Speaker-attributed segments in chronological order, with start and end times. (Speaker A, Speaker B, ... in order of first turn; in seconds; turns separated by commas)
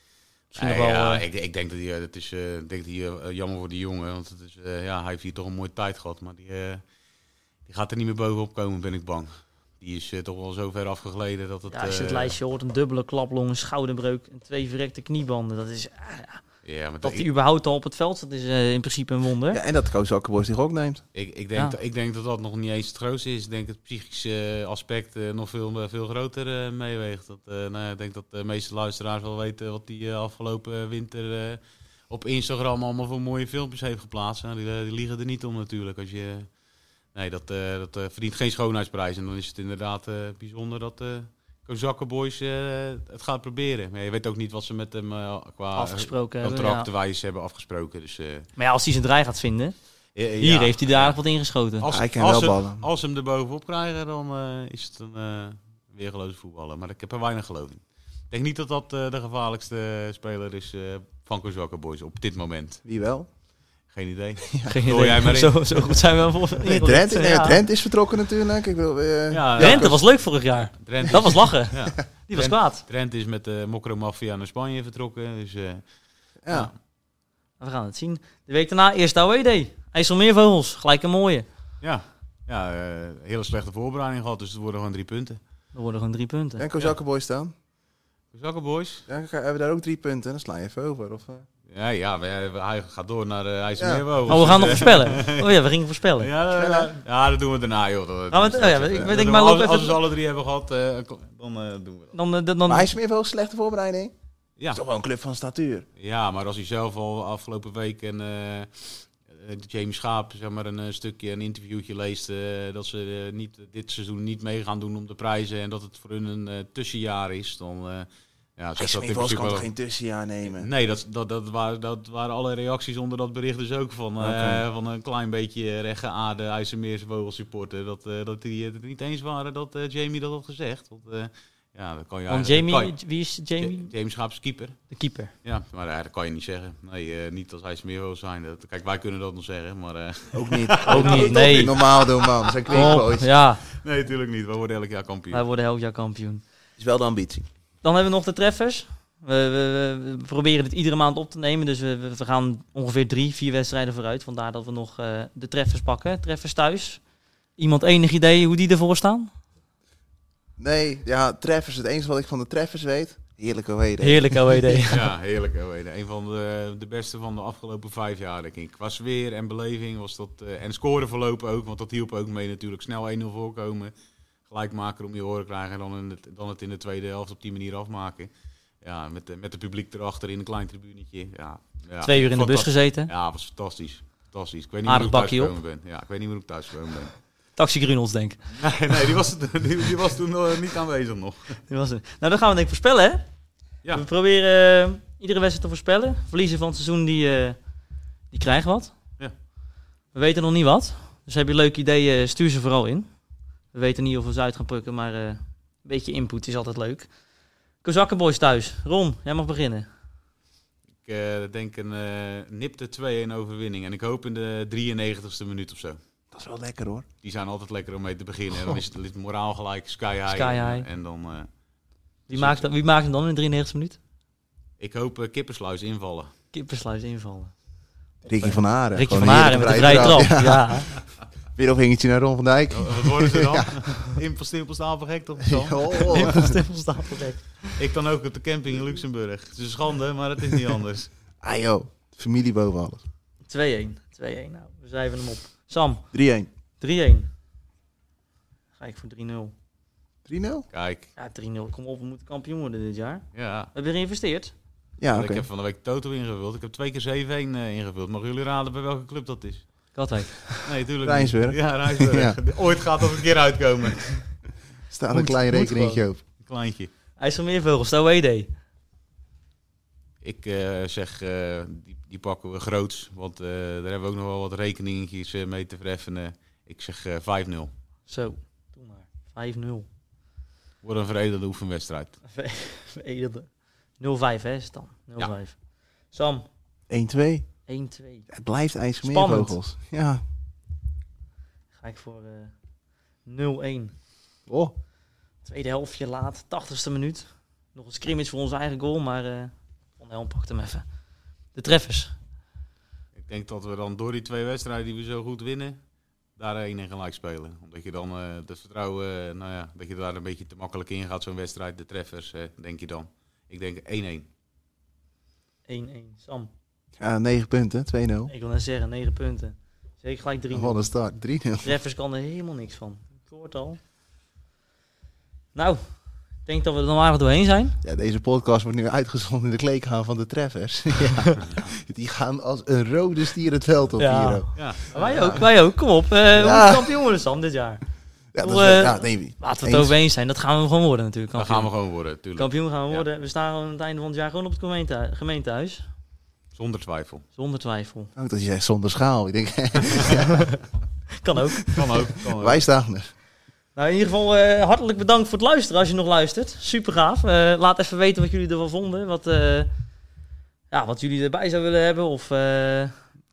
Speaker A: 0.5-1.2, Speaker B: 0.6-6.8, Speaker B: 7.7-12.4, Speaker A: 11.7-16.4, Speaker B: 16.6-17.3, Speaker A: 17.0-19.6, Speaker C: 19.5-21.0, Speaker B: 21.1-36.5, Speaker B: 37.1-48.5, Speaker A: 45.8-46.9, Speaker A: 48.6-49.8, Speaker B: 50.1-51.2, Speaker A: 50.4-51.9, Speaker B: 51.8-62.8, Speaker C: 51.9-52.8, Speaker C: 62.9-63.3, Speaker B: 63.9-66.0, Speaker A: 64.7-67.6, Speaker C: 66.6-70.0, Speaker B: 69.3-70.1, Speaker A: 69.6-72.8, Speaker B: 70.8-75.8, Speaker C: 76.4-76.7, Speaker B: 76.5-76.8, Speaker A: 77.6-81.5, Speaker B: 81.8-85.4, Speaker A: 85.7-86.7, Speaker C: 86.6-87.5, Speaker B: 88.3-89.1, Speaker C: 89.1-91.5, Speaker B: 91.7-95.5, Speaker C: 93.8-94.1, Speaker A: 94.3-96.3, Speaker B: 96.2-102.2, Speaker C: 96.5-96.9, Speaker A: 98.3-100.0, Speaker A: 102.1-102.9, Speaker C: 102.7-104.1, Speaker C: 104.7-105.9, Speaker B: 106.0-119.7, Speaker C: 118.8-120.7, Speaker B: 120.5-134.9, Speaker C: 124.2-124.6, Speaker A: 132.3-133.9, Speaker A: 134.9-135.3, Speaker B: 135.4-143.1, Speaker C: 140.3-143.3, Speaker A: 140.8-141.8, Speaker A: 142.7-143.6, Speaker B: 143.7-145.4, Speaker A: 145.3-146.4, Speaker C: 146.8-147.5, Speaker A: 147.8-157.0, Speaker A: 157.6-159.3, Speaker C: 160.6-164.8, Speaker A: 164.0-165.1, Speaker B: 164.9-173.9, Speaker B: 174.5-187.2, Speaker A: 182.0-183.1, Speaker A: 184.8-185.5, Speaker A: 187.6-188.5, Speaker B: 188.5-191.6, Speaker A: 191.7-193.2, Speaker A: 193.9-197.6, Speaker A: 198.3-198.9, Speaker A: 200.1-203.1, Speaker A: 203.7-207.1, Speaker A: 207.8-209.9, Speaker B: 211.0-216.0, Speaker C: 216.3-217.1, Speaker B: 217.2-221.5, Speaker A: 220.3-220.9, Speaker B: 222.3-222.7, Speaker A: 222.3-224.0, Speaker B: 224.8-226.3, Speaker A: 226.5-227.5, Speaker C: 228.2-233.8, Speaker A: 228.4-230.9, Speaker B: 232.7-236.3, Speaker C: 235.4-236.6, Speaker A: 236.1-237.8, Speaker B: 237.7-241.1, Speaker C: 241.4-243.0, Speaker A: 243.5-246.1, Speaker C: 246.1-246.5, Speaker A: 246.8-247.3, Speaker A: 248.8-249.5, Speaker C: 250.3-250.7, Speaker B: 250.7-251.1, Speaker A: 251.2-254.5, Speaker B: 253.3-253.7, Speaker C: 255.0-255.5, Speaker B: 255.1-259.7, Speaker A: 259.9-260.7, Speaker B: 260.6-264.2, Speaker C: 261.0-262.4, Speaker C: 264.9-266.2, Speaker A: 265.1-266.1, Speaker B: 266.4-266.9, Speaker A: 267.2-268.5, Speaker B: 270.2-277.7, Speaker A: 278.1-279.9, Speaker B: 280.8-282.2, Speaker A: 282.3-285.6, Speaker A: 286.1-286.5, Speaker C: 286.9-287.5, Speaker A: 287.7-288.3, Speaker C: 288.3-290.2, Speaker A: 289.0-289.6, Speaker A: 291.8-292.5, Speaker A: 293.2-293.9, Speaker C: 294.5-294.7, Speaker A: 295.4-300.9, Speaker A: 301.5-302.1, Speaker B: 303.2-305.8, Speaker B: 306.4-314.3, Speaker A: 315.7-316.5, Speaker C: 317.0-318.3, Speaker A: 318.3-320.8, Speaker C: 320.5-321.8, Speaker A: 321.6-323.8, Speaker A: 325.6-325.8, Speaker A: 326.4-327.8, Speaker C: 327.8-335.5, Speaker A: 334.0-337.8, Speaker B: 334.6-334.9, Speaker C: 336.4-336.9, Speaker C: 338.3-339.9, Speaker A: 338.4-341.7, Speaker B: 341.3-343.1, Speaker A: 342.4-345.9, Speaker B: 346.5-347.2, Speaker A: 347.4-348.1, Speaker C: 348.2-350.5, Speaker A: 351.2-351.9, Speaker B: 351.7-352.6, Speaker C: 352.2-353.1, Speaker A: 353.8-359.7, Speaker A: 360.7-363.0